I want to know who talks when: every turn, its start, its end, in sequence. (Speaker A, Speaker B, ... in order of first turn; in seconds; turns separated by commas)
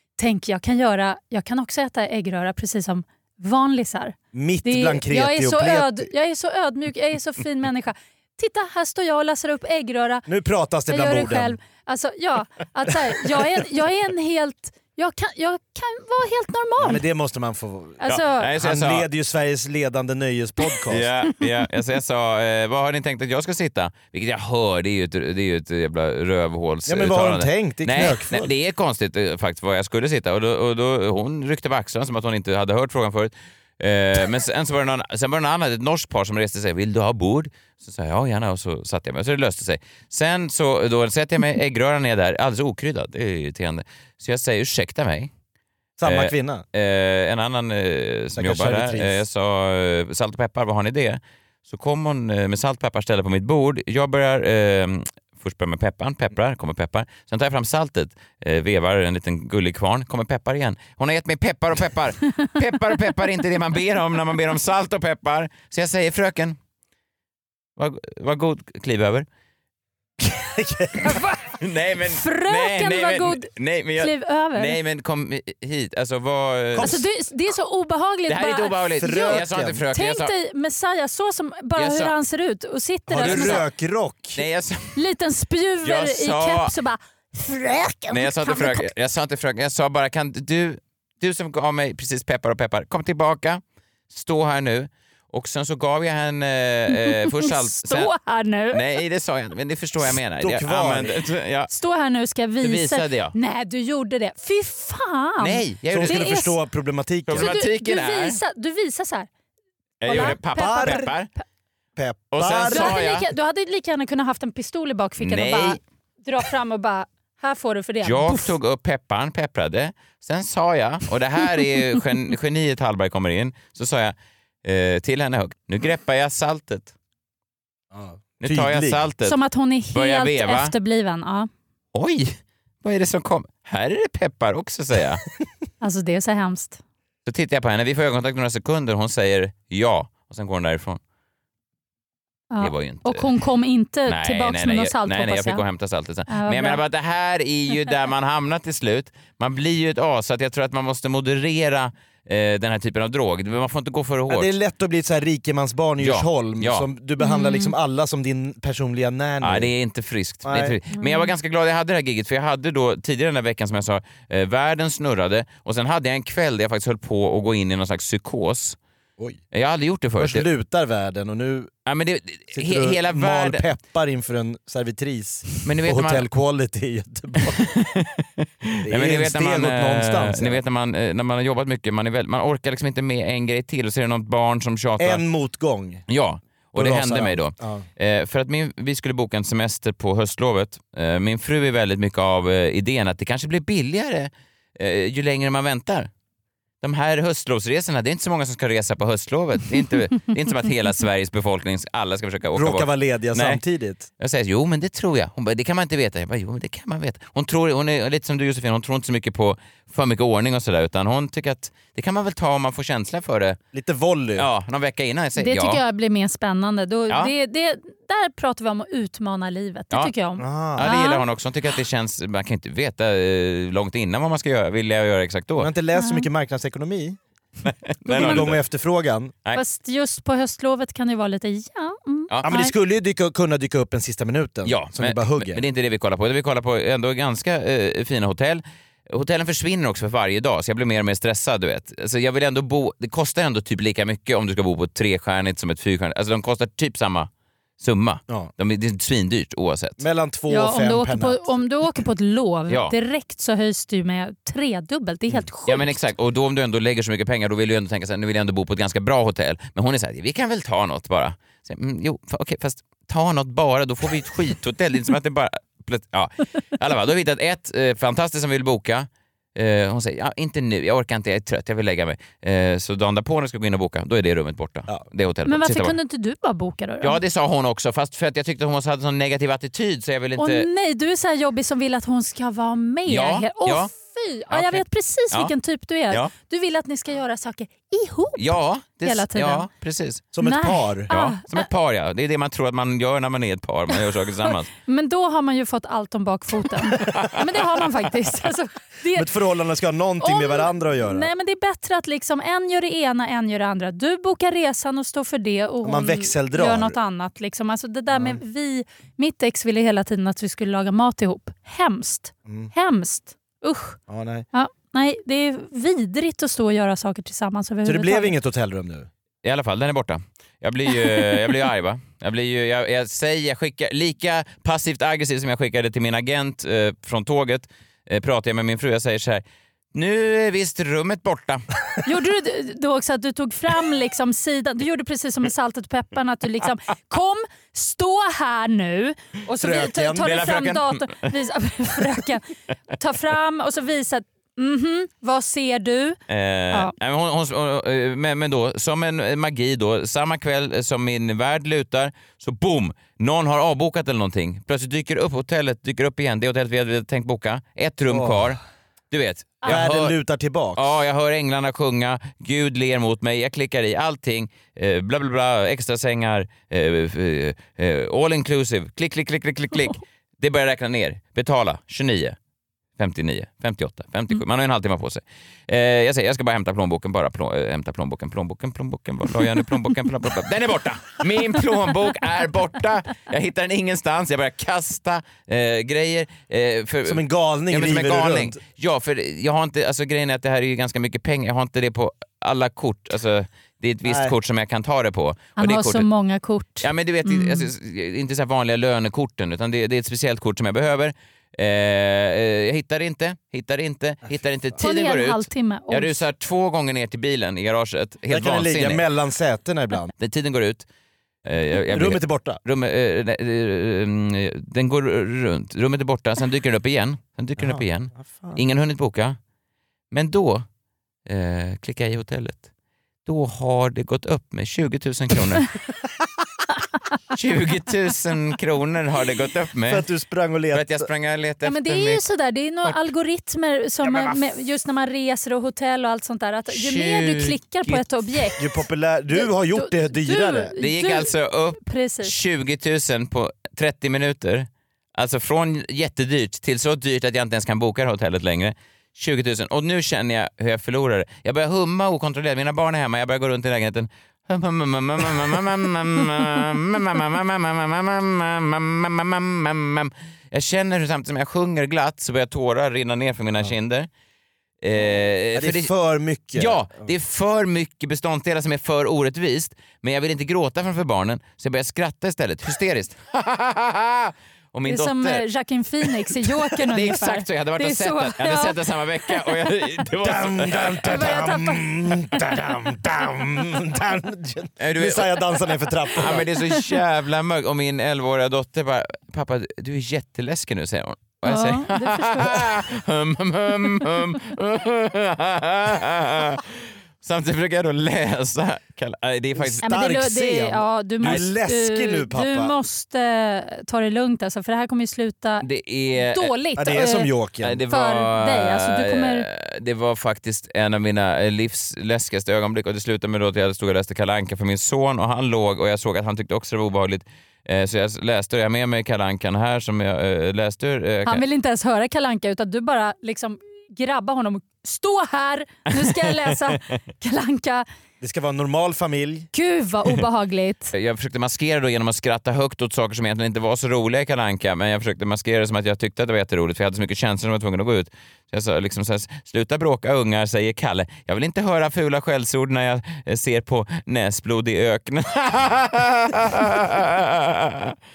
Speaker A: 0.2-10.2, Speaker B: 4.3-6.1, Speaker B: 10.2-11.6, Speaker A: 10.9-17.0, Speaker B: 16.8-21.1, Speaker A: 18.0-18.5, Speaker C: 18.1-19.1, Speaker C: 20.9-45.3, Speaker B: 26.9-28.5, Speaker B: 46.0-46.6, Speaker C: 46.0-66.6, Speaker B: 48.3-49.2, Speaker C: 67.8-69.2, Speaker B: 70.2-71.2, Speaker A: 71.0-71.4, Speaker C: 71.6-77.0, Speaker A: 72.1-74.8, Speaker B: 76.7-77.0, Speaker A: 76.8-79.4, Speaker C: 78.3-80.3, Speaker B: 79.0-79.8, Speaker A: 79.9-83.6, Speaker C: 81.8-82.1, Speaker B: 83.1-84.4, Speaker C: 83.2-83.7, Speaker C: 84.3-85.0, Speaker A: 85.0-88.9, Speaker C: 85.8-86.8, Speaker C: 88.1-98.1, Speaker A: 96.9-98.8, Speaker C: 98.7-101.7, Speaker B: 100.4-101.2, Speaker A: 101.7-106.5, Speaker C: 102.6-103.3, Speaker C: 105.4-106.4, Speaker B: 105.9-107.5, Speaker C: 107.3-108.4, Speaker A: 107.3-109.3, Speaker C: 110.0-111.3, Speaker A: 110.0-111.1, Speaker B: 110.1-111.1, Speaker B: 112.0-113.0, Speaker C: 112.3-113.3, Speaker A: 112.7-118.5, Speaker C: 115.2-115.8, Speaker C: 118.0-126.9, Speaker B: 127.9-129.0, Speaker C: 128.4-129.4, Speaker A: 129.2-131.5, Speaker C: 129.9-130.7, Speaker C: 131.9-135.2, Speaker A: 135.8-136.8, Speaker C: 137.2-141.0, Speaker A: 142.5-145.6, Speaker C: 142.6-143.3, Speaker C: 144.1-154.5, Speaker A: 146.3-146.8, Speaker B: 154.3-159.7, Speaker C: 156.0-156.8, Speaker A: 157.2-157.7, Speaker C: 159.4-168.8, Speaker B: 160.4-160.7, Speaker A: 160.9-161.3, Speaker C: 169.5-170.4, Speaker B: 170.2-171.7, Speaker C: 171.8-173.6, Speaker B: 172.5-177.6, Speaker C: 175.6-176.2, Speaker C: 177.4-185.2, Speaker B: 178.8-180.6, Speaker B: 185.0-186.0, Speaker C: 186.1-196.1, Speaker B: 186.7-187.8, Speaker C: 196.8-203.6, Speaker B: 202.5-204.1, Speaker C: 204.2-213.6, Speaker B: 213.7-214.5, Speaker C: 214.4-215.8, Speaker A: 215.4-221.2, Speaker B: 220.4-220.9, Speaker C: 220.8-225.7, Speaker B: 225.6-227.2, Speaker A: 225.9-226.3, Speaker C: 227.6-228.6, Speaker A: 228.1-228.5, Speaker B: 228.1-229.3, Speaker A: 229.5-232.7, Speaker B: 232.4-235.6, Speaker C: 234.6-250.0, Speaker B: 250.0-251.5, Speaker A: 250.5-256.0, Speaker C: 252.7-252.9, Speaker C: 255.7-275.9, Speaker A: 275.4-277.2, Speaker C: 277.0-280.6, Speaker A: 280.4-289.7, Speaker C: 283.1-283.9, Speaker C: 284.5-285.5, Speaker C: 288.4-290.2, Speaker B: 290.3-291.1, Speaker A: 290.4-291.6, Speaker C: 291.1-294.7, Speaker A: 294.8-299.3, Speaker C: 297.0-297.4, Speaker B: 299.1-301.3, Speaker A: 300.2-314.0, Speaker B: 305.8-307.0, Speaker B: 308.1-308.4, Speaker B: 314.1-314.4, Speaker A: 314.5-318.3, Speaker B: 317.8-319.1, Speaker C: 319.4-329.4, Speaker C: 329.9-331.6, Speaker A: 332.0-346.2, Speaker B: 339.6-340.4, Speaker C: 340.2-341.4, Speaker C: 346.3-358.6, Speaker B: 358.1-358.4, Speaker C: 359.1-360.1, Speaker B: 359.6-361.0, Speaker C: 360.8-372.4, Speaker C: 373.0-396.1, Speaker B: 387.0-388.6, Speaker B: 394.0-394.3, Speaker A: 395.6-397.7, Speaker C: 396.8-409.0, Speaker A: 404.8-406.2, Speaker B: 408.3-410.1, Speaker C: 410.2-410.9, Speaker C: 411.4-419.4, Speaker B: 411.9-412.6, Speaker B: 417.6-418.6, Speaker C: 420.1-420.6, Speaker C: 421.2-422.6, Speaker C: 423.2-425.7, Speaker C: 427.3-430.0, Speaker B: 429.9-431.1, Speaker C: 430.7-432.2, Speaker A: 431.6-438.6, Speaker C: 436.7-438.0, Speaker B: 438.6-440.7, Speaker A: 439.3-442.3, Speaker C: 440.8-464.1, Speaker C: 464.8-465.9, Speaker B: 465.5-467.1, Speaker C: 466.5-475.4, Speaker A: 474.8-478.7, Speaker C: 476.0-481.3, Speaker B: 480.2-486.5, Speaker A: 481.0-482.1, Speaker C: 484.8-499.9, Speaker A: 491.4-492.8, Speaker B: 499.6-502.7, Speaker A: 499.8-505.6, Speaker C: 505.6-506.5, Speaker A: 506.2-507.3, Speaker B: 506.8-507.8, Speaker C: 507.6-521.4, Speaker A: 507.9-509.5, Speaker A: 521.2-527.9, Speaker C: 526.0-526.5, Speaker B: 528.2-529.5, Speaker A: 529.5-530.9, Speaker C: 530.9-547.9